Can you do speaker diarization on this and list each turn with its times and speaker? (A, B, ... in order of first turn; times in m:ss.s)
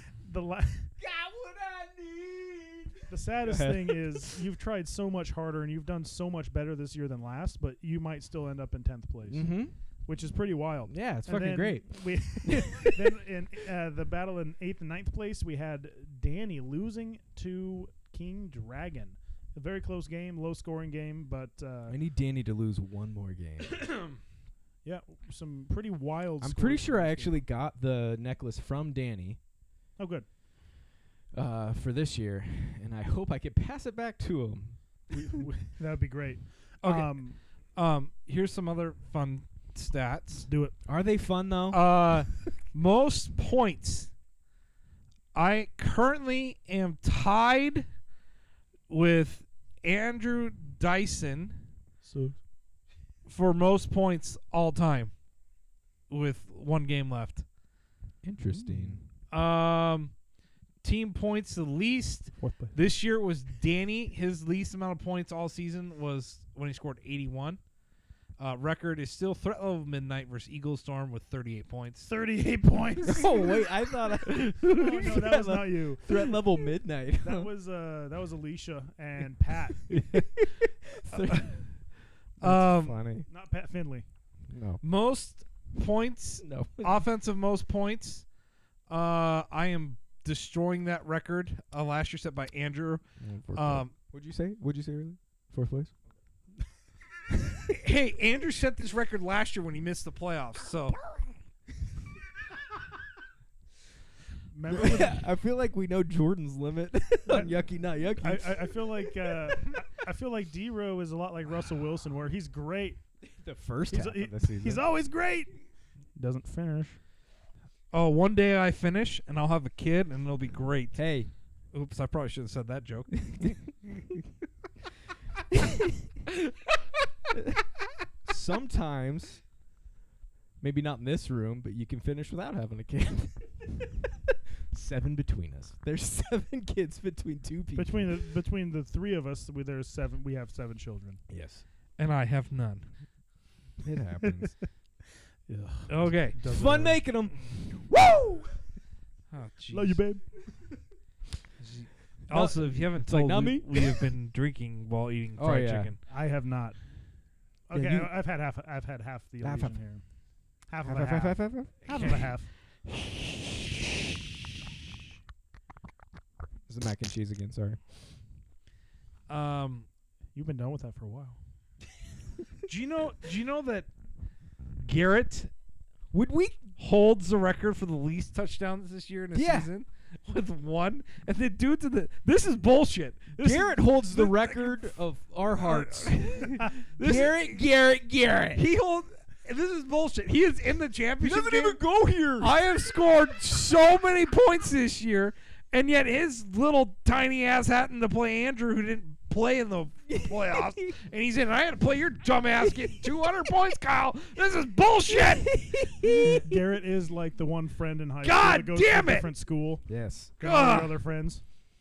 0:00.2-0:00.9 A
0:01.0-0:04.4 B
0:03.1-0:09.5 A
0:09.3-0:09.8 B
0:10.1-0:22.0 A
0:10.9-0:13.1 B
0:21.9-0:23.8 B
0:24.8-0:27.4 A
0:26.4-0:29.4 B
0:30.0-0:30.3 A
0:31.3-0:35.5 B
0:35.1-0:37.4 A
0:36.8-0:37.2 C
0:37.8-0:40.5 C
0:40.5-0:40.8 A
0:40.9-0:41.8 B
0:41.7-0:44.1 C
0:45.3-0:47.9 C
0:48.9-0:51.6 C
0:52.0-0:52.4 A
0:53.3-0:55.2 C
0:56.1-0:57.4 C
0:58.2-0:59.0 B
0:58.5-0:59.0 A
0:59.3-1:00.2 C
1:00.8-1:07.6 C
1:02.4-1:02.8 A
1:08.4-1:12.1 C
1:12.1-1:13.6 A
1:13.0-1:17.5 B
1:14.7-1:16.3 A
1:17.2-1:19.8 A
1:19.9-1:21.7 B
1:21.2-1:21.6 C
1:22.4-1:23.0 C
1:22.4-1:23.3 B
1:23.3-1:24.1 A
1:24.5-1:24.8 B
1:24.8-1:28.3 C
1:26.4-1:27.0 B
1:28.9-1:33.9 C
1:33.2-1:35.9 B
1:37.7-1:41.0 C
1:44.5-1:45.2 A
1:44.7-1:49.6 B
1:47.3-1:47.5 A
1:48.2-1:53.0 A
1:53.2-1:54.8 B
1:53.9-1:55.6 A
1:56.2-1:57.0 A
1:57.9-2:01.0 C
2:00.9-2:01.3 B
2:01.7-2:03.3 C
2:03.3-2:03.6 B
2:08.2-2:09.4 B
2:10.6-2:14.1 B
2:14.7-2:18.2 B
2:17.8-2:21.2 A
2:21.3-2:21.6 B
2:22.0-2:22.9 C
2:23.8-2:24.6 B
2:24.2-2:24.5 A
2:25.5-2:27.0 A
2:25.9-2:26.4 C
2:26.5-2:28.6 B
2:29.3-2:30.0 C
2:29.7-2:30.5 A
2:31.6-2:36.0 C
2:32.3-2:34.1 B
2:35.4-2:35.9 B
2:36.1-2:36.8 A
2:37.7-2:40.0 A
2:37.7-2:38.1 B
2:39.4-2:39.8 B
2:40.7-2:42.5 A
2:40.8-2:42.2 B
2:41.9-2:42.3 C
2:46.7-2:47.8 B
2:49.3-2:49.9 C
2:50.4-2:51.4 A
2:52.7-2:53.9 C
2:54.8-2:55.5 C
2:56.1-2:56.7 B
2:56.8-3:07.6 C
2:59.3-2:59.7 B
3:03.4-3:08.6 B
3:08.6-3:11.8 C
3:11.2-3:12.5 B
3:12.4-3:25.9 C
3:20.1-3:21.0 B
3:22.6-3:23.0 B
3:25.1-3:26.6 B
3:26.4-3:29.9 A
3:28.2-3:29.3 C
3:29.9-3:30.3 B
3:30.4-3:31.4 A
3:30.4-3:31.0 C